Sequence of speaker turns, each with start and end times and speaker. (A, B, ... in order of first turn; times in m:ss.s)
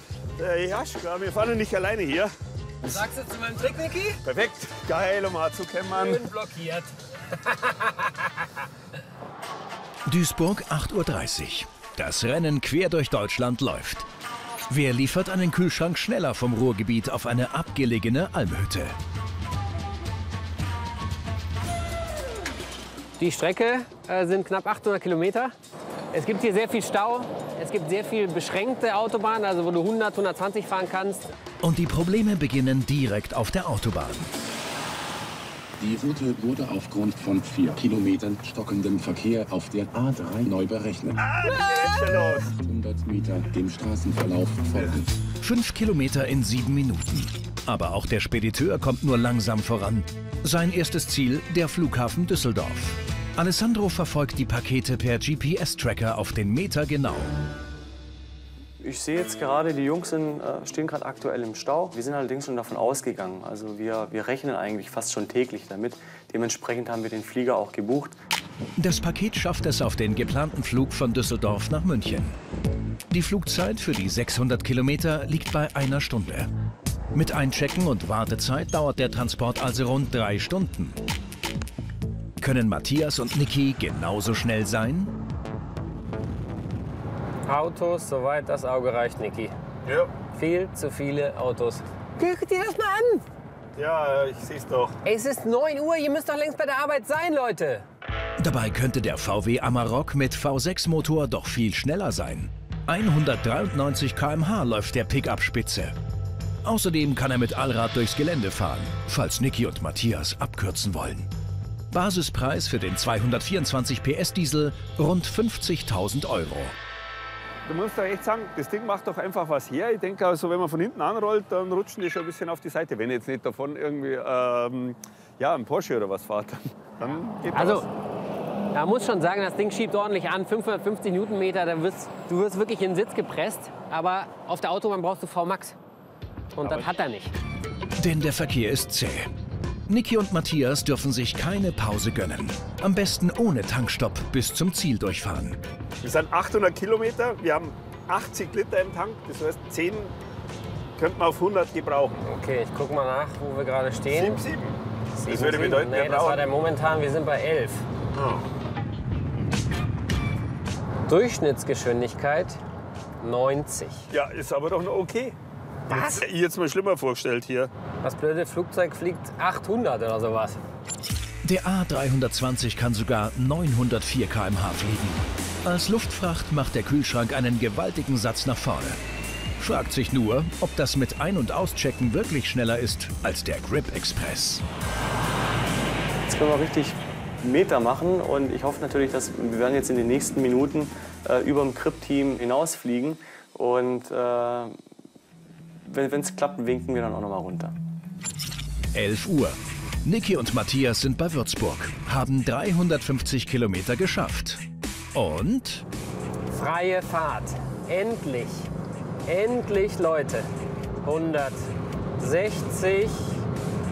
0:00.4-0:02.3 A
0:03.1-0:03.9 B
0:04.2-0:06.2 A
0:06.0-0:06.7 B
0:07.3-0:07.8 B
0:10.0-0:14.1 C
0:14.7-0:19.0 C
0:23.2-0:25.5 D
0:26.1-0:31.3 D
0:31.6-0:34.3 C
0:35.8-0:41.2 E
0:41.2-0:42.5 A
0:42.6-0:45.1 E
0:45.4-0:57.3 C
0:58.8-1:08.2 F
1:08.8-1:12.4 C
1:13.1-1:16.5 C
1:17.1-1:21.0 C
1:22.4-1:25.1 C
1:27.4-1:29.5 D
1:29.8-1:30.2 A
1:30.3-1:33.2 D
1:33.8-1:35.0 A
1:35.0-1:37.8 D
1:38.4-1:45.9 C
1:46.6-1:51.3 C
1:51.9-1:56.8 C
1:57.6-2:07.9 A
2:08.7-2:15.8 D
2:16.5-2:17.3 D
2:16.6-2:17.0 A
2:18.0-2:19.3 C
2:19.9-2:25.6 C
2:26.0-2:30.1 A
2:31.0-2:32.2 A
2:32.2-2:34.0 D
2:34.0-2:36.6 A
2:35.2-2:35.9 D
2:35.3-2:37.0 B
2:37.0-2:37.8 D
2:38.2-2:38.4 A
2:41.1-2:42.6 D
2:43.2-2:44.0 D
2:44.1-2:45.4 A
2:45.9-2:47.7 A
2:48.0-2:50.6 D
2:48.8-2:49.0 B
2:51.4-2:59.0 C
2:59.6-3:04.6 C
3:06.3-3:14.8 F
3:15.8-3:17.7 F
3:18.9-3:24.6 C
3:25.1-3:25.8 C
3:26.5-3:28.7 D
3:29.2-3:30.5 D
3:31.0-3:31.6 D
3:32.2-3:33.4 D